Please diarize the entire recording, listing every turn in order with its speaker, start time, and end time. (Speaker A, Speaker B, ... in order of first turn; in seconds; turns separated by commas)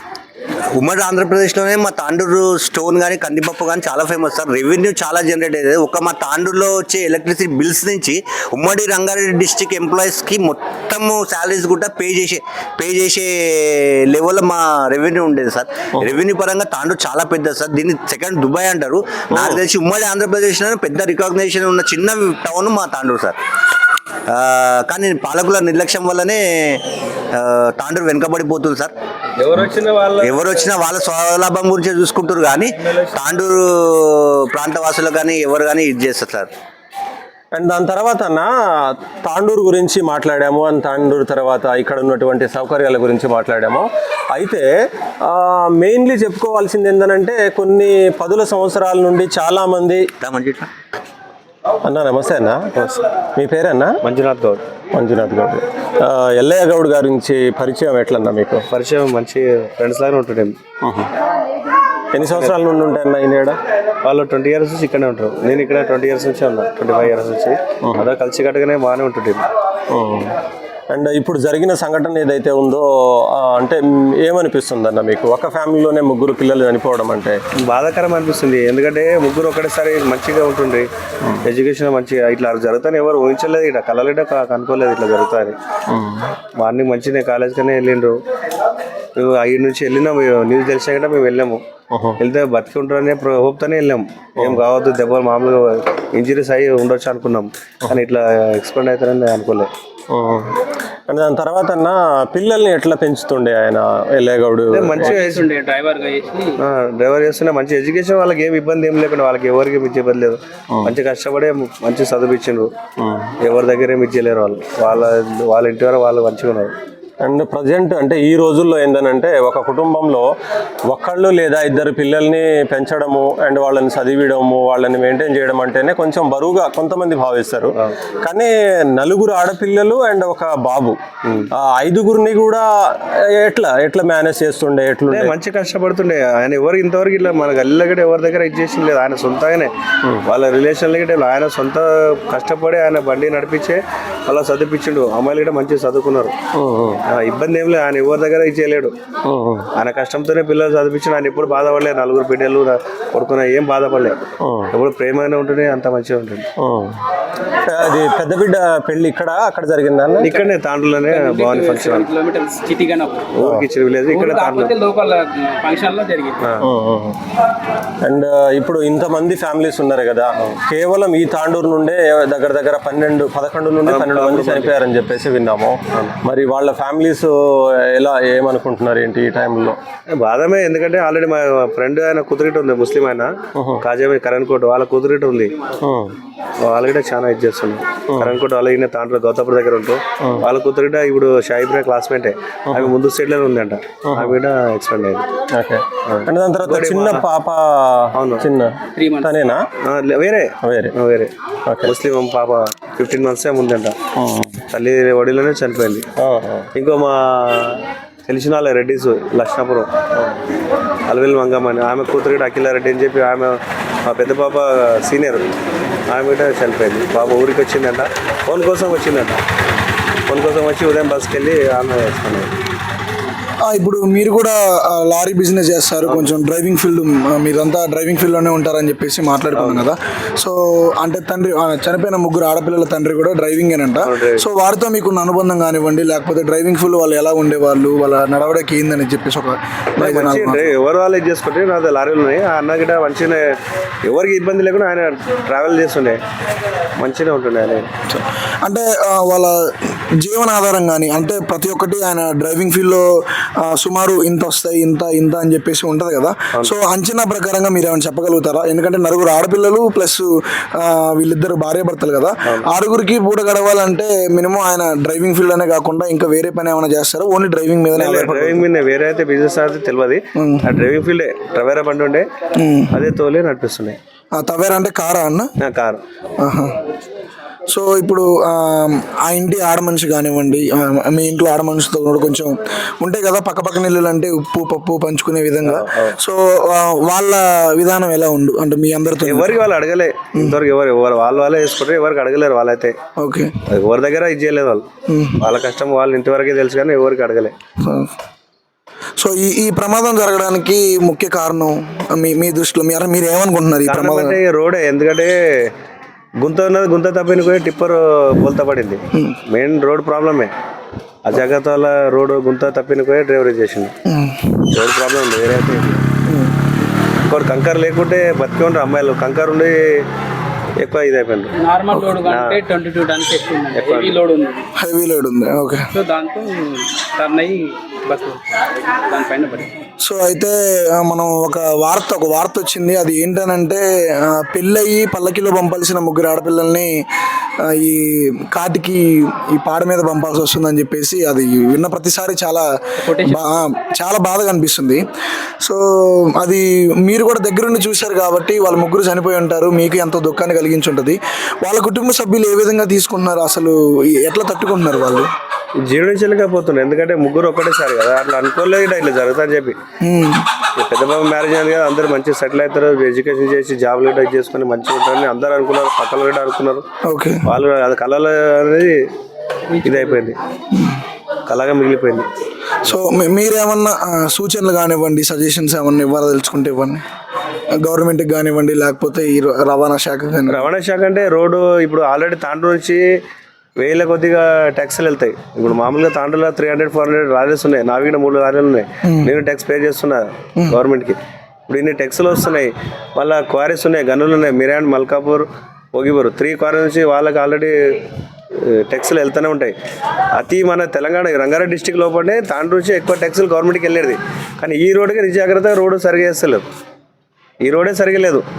Speaker A: 0.7-23.4, Speaker B: 19.3-19.6, Speaker A: 24.3-28.9, Speaker C: 29.4-30.7, Speaker A: 30.2-36.5, Speaker B: 37.5-44.7, Speaker B: 45.2-50.0, Speaker A: 50.2-50.7, Speaker B: 51.8-52.6, Speaker B: 53.4-53.9, Speaker C: 54.0-54.6, Speaker B: 54.9-58.6, Speaker C: 58.7-60.5, Speaker B: 60.8-61.1, Speaker B: 62.1-63.6, Speaker C: 64.0-69.5, Speaker B: 69.9-70.3, Speaker B: 70.9-77.4, Speaker C: 77.7-80.9, Speaker C: 81.4-85.5, Speaker B: 85.9-86.3, Speaker C: 86.6-88.2, Speaker C: 89.2-91.6, Speaker B: 91.9-92.2, Speaker C: 92.2-99.7, Speaker B: 100.1-100.5, Speaker B: 101.1-105.2, Speaker C: 104.7-105.5, Speaker D: 105.0-106.6, Speaker C: 106.6-112.7, Speaker B: 113.0-113.3, Speaker C: 113.4-116.7, Speaker B: 117.2-120.3, Speaker B: 120.9-130.9, Speaker B: 131.5-135.3, Speaker C: 135.1-139.7, Speaker C: 140.2-146.3, Speaker B: 146.5-147.0, Speaker C: 147.1-148.9, Speaker B: 149.2-149.7, Speaker C: 149.8-154.2, Speaker B: 154.4-154.7, Speaker C: 154.7-156.5, Speaker B: 156.6-156.9, Speaker B: 157.7-160.3, Speaker C: 160.2-162.1, Speaker D: 161.1-163.3, Speaker C: 163.3-164.7, Speaker D: 164.1-166.4, Speaker B: 166.6-167.2, Speaker B: 168.0-177.3, Speaker C: 173.8-174.7, Speaker B: 177.9-179.8, Speaker C: 180.1-185.5, Speaker B: 183.5-183.8, Speaker B: 185.8-186.1, Speaker C: 186.7-195.2, Speaker B: 194.1-194.3, Speaker B: 195.5-199.6, Speaker C: 196.1-197.2, Speaker C: 198.2-198.4, Speaker D: 198.9-199.3, Speaker C: 199.8-201.3, Speaker B: 200.6-200.9, Speaker B: 201.7-201.9, Speaker C: 201.8-203.9, Speaker B: 204.2-204.6, Speaker C: 204.7-206.0, Speaker B: 206.2-206.7, Speaker C: 206.7-209.9, Speaker C: 211.1-215.5, Speaker C: 216.1-219.4, Speaker C: 220.3-222.5, Speaker E: 223.6-240.7, Speaker C: 229.5-229.8, Speaker C: 234.0-234.4, Speaker C: 240.0-243.4, Speaker C: 244.1-246.2, Speaker C: 247.0-247.9, Speaker E: 248.1-249.5, Speaker E: 250.2-253.0, Speaker E: 253.6-268.6, Speaker C: 267.9-272.2, Speaker E: 270.4-270.8, Speaker E: 272.6-273.1, Speaker C: 272.9-274.0, Speaker E: 274.3-275.5, Speaker C: 275.6-276.0, Speaker E: 276.4-276.8, Speaker E: 277.7-289.6, Speaker C: 285.6-286.1, Speaker C: 289.2-292.9, Speaker E: 293.2-293.5, Speaker C: 293.7-294.9, Speaker E: 295.1-295.4, Speaker C: 295.4-297.5, Speaker E: 297.8-298.1, Speaker E: 299.2-304.4, Speaker C: 303.9-305.7, Speaker C: 306.4-310.5, Speaker C: 311.2-313.9, Speaker E: 314.1-314.6, Speaker C: 314.7-316.0, Speaker E: 316.2-316.6, Speaker C: 317.2-320.0, Speaker C: 320.8-321.5, Speaker D: 321.5-324.6, Speaker C: 322.2-322.6, Speaker C: 323.7-324.2, Speaker E: 324.8-325.9, Speaker D: 325.9-329.7, Speaker E: 330.0-336.9, Speaker E: 337.6-342.6, Speaker D: 343.1-343.4, Speaker E: 343.2-345.0, Speaker E: 346.3-355.3, Speaker C: 355.9-359.8, Speaker E: 360.0-360.4, Speaker C: 360.8-366.8, Speaker E: 367.0-367.4, Speaker C: 367.4-369.0, Speaker D: 369.7-370.2, Speaker C: 369.8-370.4, Speaker E: 370.7-371.0, Speaker C: 371.5-372.3, Speaker E: 372.8-377.0, Speaker E: 377.8-380.7, Speaker C: 380.5-383.0, Speaker C: 383.8-398.0, Speaker E: 389.0-389.3, Speaker C: 398.6-399.7, Speaker C: 400.3-406.6, Speaker C: 407.6-408.4